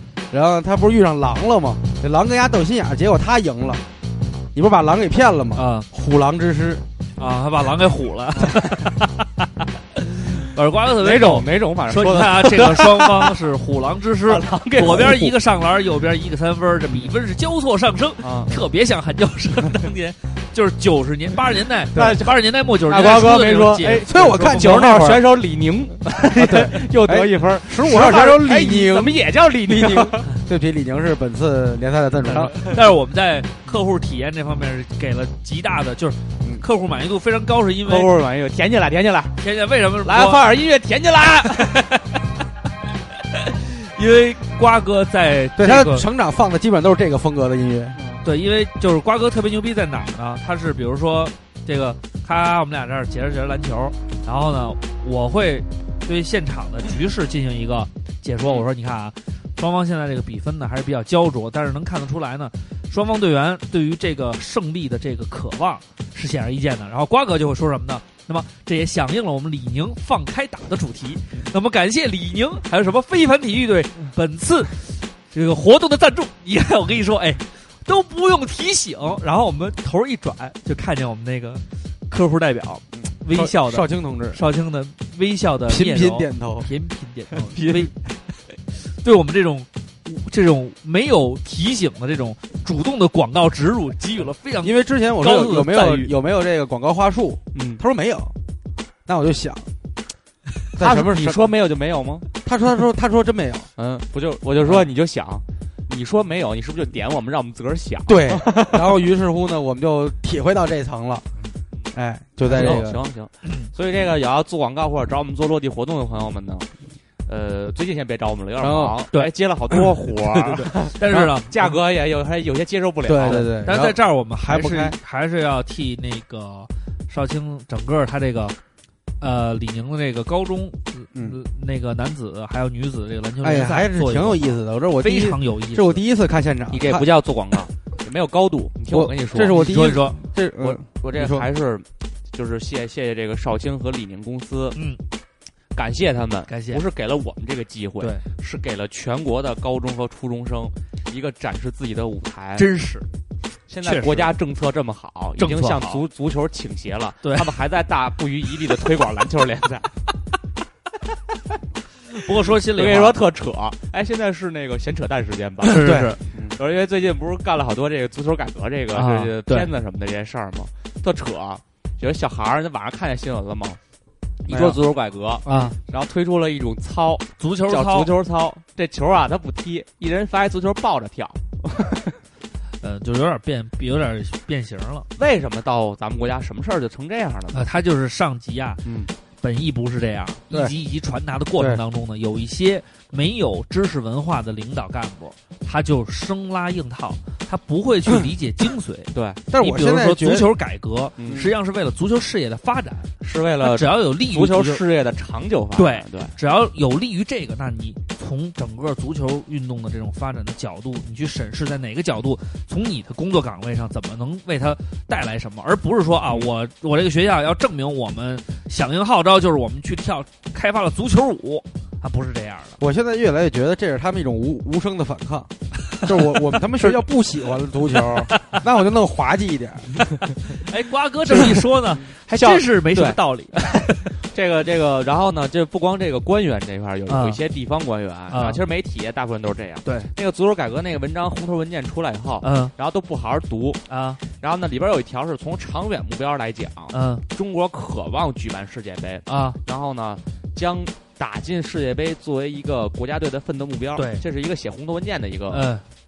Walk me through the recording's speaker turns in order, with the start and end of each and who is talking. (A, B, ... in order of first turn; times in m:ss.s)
0:00.3-0:03.8 A
0:04.5-0:06.8 A
0:05.5-0:05.9 B
0:07.2-0:09.1 B
0:10.0-0:25.0 B
0:11.0-0:13.4 C
0:14.3-0:15.3 C
0:18.2-0:18.5 C
0:21.9-0:30.3 C
0:24.0-0:25.2 A
0:26.3-0:32.5 A
0:32.3-0:38.1 B
0:37.9-0:39.4 C
0:39.4-0:40.4 B
0:40.0-0:42.2 C
0:43.3-0:46.0 B
0:45.6-0:48.0 A
0:45.6-0:46.0 C
0:48.0-0:48.2 C
0:48.2-1:28.0 B
1:23.0-1:24.4 A
1:25.7-1:26.7 A
1:27.5-1:27.9 C
1:28.7-1:36.1 B
1:34.6-1:38.4 A
1:37.5-1:37.8 C
1:39.0-1:39.7 A
1:40.7-1:41.5 A
1:40.8-1:42.3 C
1:42.4-1:43.7 A
1:43.8-1:49.0 C
1:48.0-1:51.3 A
1:51.9-1:53.0 A
1:52.4-1:56.7 C
1:53.4-1:53.7 B
1:57.2-2:03.5 C
1:58.6-1:59.0 A
2:00.3-2:01.3 A
2:00.7-2:01.5 B
2:03.0-2:05.0 A
2:03.2-2:08.6 B
2:09.2-2:16.0 B
2:13.4-2:17.1 A
2:16.7-2:20.0 C
2:18.9-2:21.5 A
2:19.5-2:20.2 B
2:20.6-2:24.8 C
2:24.7-2:25.0 B
2:25.7-2:32.7 C
2:26.5-2:26.8 B
2:32.6-2:33.1 B
2:33.7-2:40.0 C
2:33.8-2:34.3 B
2:35.4-2:36.0 B
2:37.2-2:37.5 B
2:42.1-2:43.2 B
2:42.1-2:53.8 C
2:45.6-2:46.2 B
2:45.8-2:46.5 A
2:48.9-2:49.7 B
2:54.4-3:02.1 C
2:54.5-2:54.8 A
2:55.5-2:55.8 B
2:55.5-2:55.7 A
2:57.4-2:58.1 B
3:02.8-3:05.1 B
3:05.2-3:07.7 C
3:07.5-3:08.8 B
3:09.4-3:24.8 B
3:19.1-3:19.4 C
3:19.5-3:20.5 A
3:21.2-3:21.5 C
3:23.2-3:26.3 C
3:25.8-3:42.8 B
3:42.8-3:45.5 A
3:46.0-3:50.0 A
3:50.6-3:54.0 B
3:52.0-4:15.7 C
3:57.1-3:57.4 B
3:58.3-3:58.6 B
3:59.8-4:00.1 B
4:02.4-4:02.7 B
4:03.9-4:04.2 B
4:06.9-4:07.2 B
4:09.3-4:09.6 B
4:14.0-4:14.2 B
4:15.5-4:15.8 B